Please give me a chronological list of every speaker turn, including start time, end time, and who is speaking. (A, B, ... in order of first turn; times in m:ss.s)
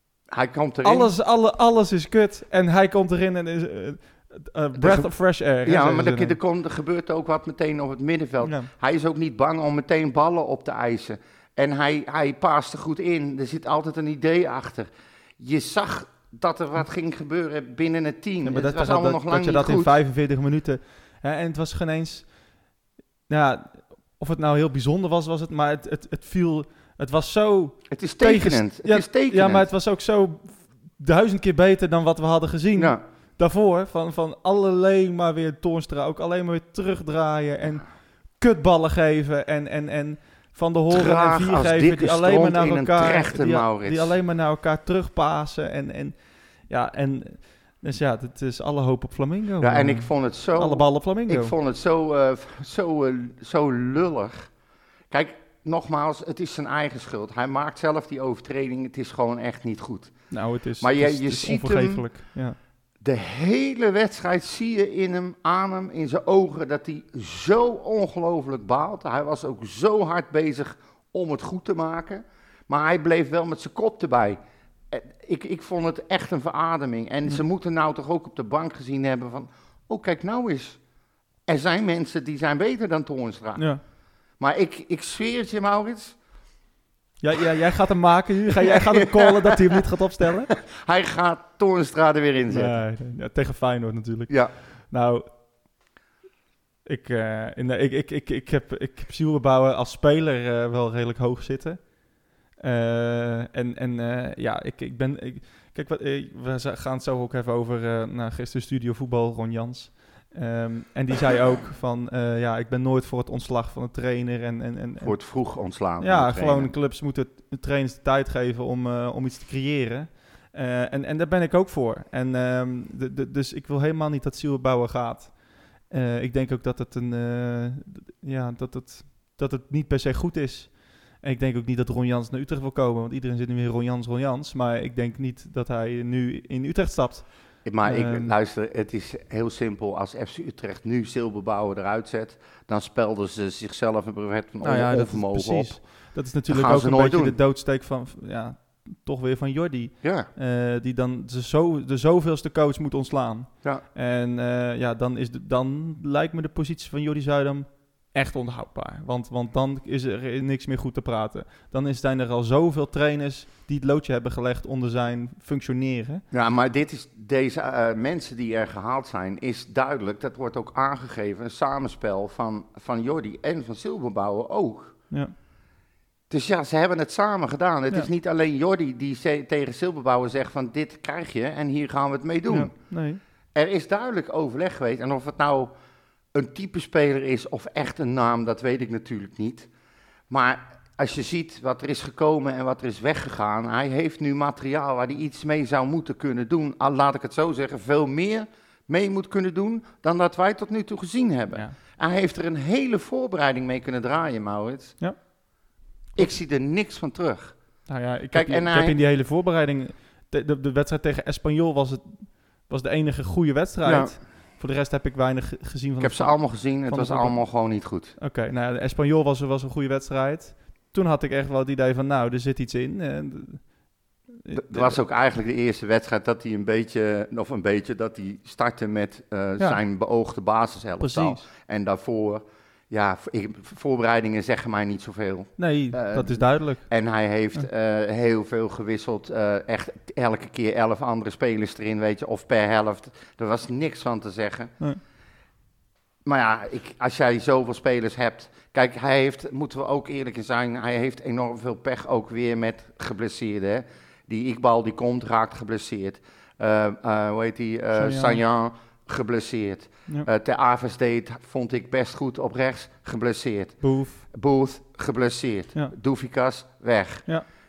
0:00.3-0:01.1 A
0:00.8-0:06.4 B
0:04.8-0:19.9 A
0:08.4-0:08.7 B
0:18.4-0:22.4 B
0:23.3-0:51.5 B
0:27.9-0:29.7 A
0:32.7-0:33.0 A
0:40.9-0:44.2 A
0:49.6-0:54.5 A
0:55.1-1:00.3 A
1:00.3-1:02.6 B
1:00.8-1:02.2 A
1:03.0-1:14.4 A
1:14.9-1:20.8 A
1:21.4-1:23.7 A
1:23.6-1:23.8 B
1:24.4-1:26.2 A
1:27.2-1:30.5 B
1:28.7-1:29.8 A
1:30.7-1:32.8 A
1:32.5-1:35.4 B
1:36.8-1:55.3 B
1:55.0-1:56.7 A
1:56.0-2:18.3 B
2:17.6-2:27.4 A
2:24.6-2:46.2 B
2:30.0-2:30.3 A
2:46.3-2:55.0 A
2:56.3-3:02.9 A
3:02.5-3:03.2 B
3:03.5-3:05.7 A
3:06.3-3:09.7 A
3:10.3-3:25.0 A
3:26.2-3:27.6 A
3:27.8-3:37.5 B
3:28.3-3:29.0 A
3:33.8-3:34.1 A
3:36.0-3:38.1 A
3:38.2-3:43.8 B
3:44.4-3:45.0 B
3:44.5-4:04.7 A
3:51.0-3:51.4 B
3:55.6-3:56.9 B
4:06.2-4:27.4 A
4:17.9-4:18.4 B
4:23.8-4:24.2 B